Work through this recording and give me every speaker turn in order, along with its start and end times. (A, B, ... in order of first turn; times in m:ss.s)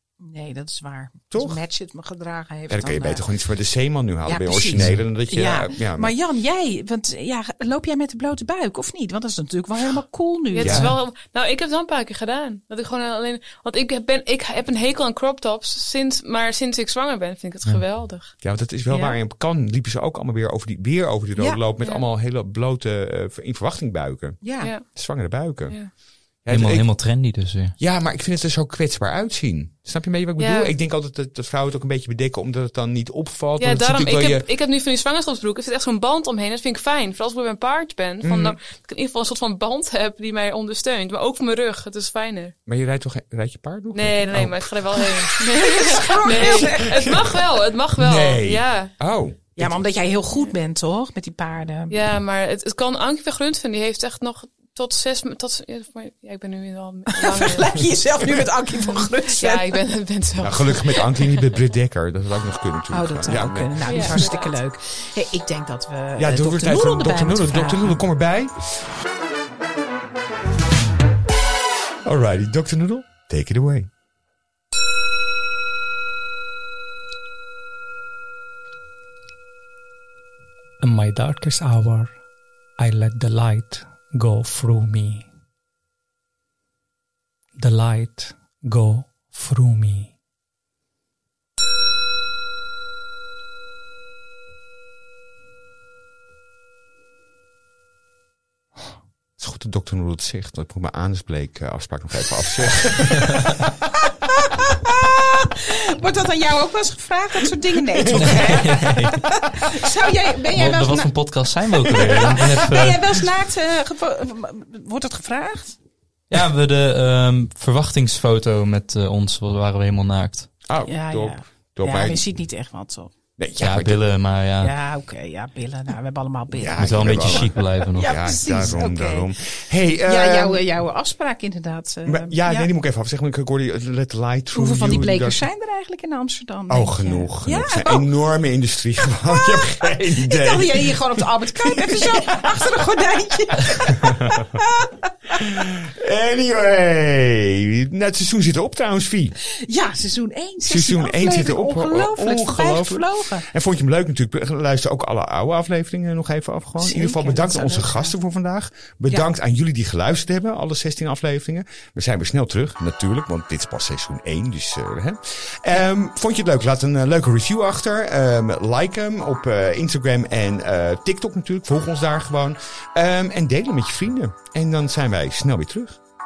0:00.2-0:03.2 A
0:01.3-0:01.6 B
0:02.7-0:06.1 B
0:04.2-0:10.9 A
0:10.5-0:18.3 C
0:10.6-0:10.9 B
0:18.4-0:25.9 B
0:18.9-0:19.2 A
0:21.4-0:21.6 A
0:24.4-0:24.7 A
0:24.6-0:24.9 C
0:26.4-0:26.9 B
0:26.5-0:27.7 D
0:27.8-0:34.5 B
0:30.4-0:30.7 C
0:33.6-0:42.5 C
0:38.2-0:38.6 B
0:42.6-0:45.2 B
0:43.9-0:48.9 C
0:45.4-0:47.1 A
0:46.4-0:49.8 B
0:49.6-0:52.0 A
0:51.9-0:57.8 C
0:57.1-0:59.8 A
0:58.9-1:01.3 C
1:00.4-1:04.3 B
1:02.9-1:08.0 A
1:03.8-1:04.5 C
1:06.2-1:08.8 B
1:12.0-1:13.9 B
1:20.8-1:22.2 E
1:22.8-1:25.2 E
1:27.6-1:30.1 E
1:39.4-1:43.5 B
1:44.4-1:51.2 A
1:48.0-1:48.5 B
1:48.1-1:49.3 D
1:50.5-1:53.3 D
1:51.8-1:55.8 A
1:52.1-1:52.4 B
1:56.3-2:00.5 D
2:00.7-2:02.2 B
2:00.8-2:03.1 A
2:03.4-2:04.0 B
2:03.6-2:04.7 D
2:04.6-2:09.3 A
2:06.5-2:10.6 B
2:06.8-2:08.1 D
2:10.0-2:12.7 A
2:12.0-2:15.4 B
2:14.5-2:18.1 A
2:16.7-2:23.0 B
2:19.3-2:25.5 A
2:23.9-2:24.6 B
2:25.3-2:29.4 B
2:29.5-2:33.5 A
2:30.6-2:56.0 B
2:36.8-2:38.2 A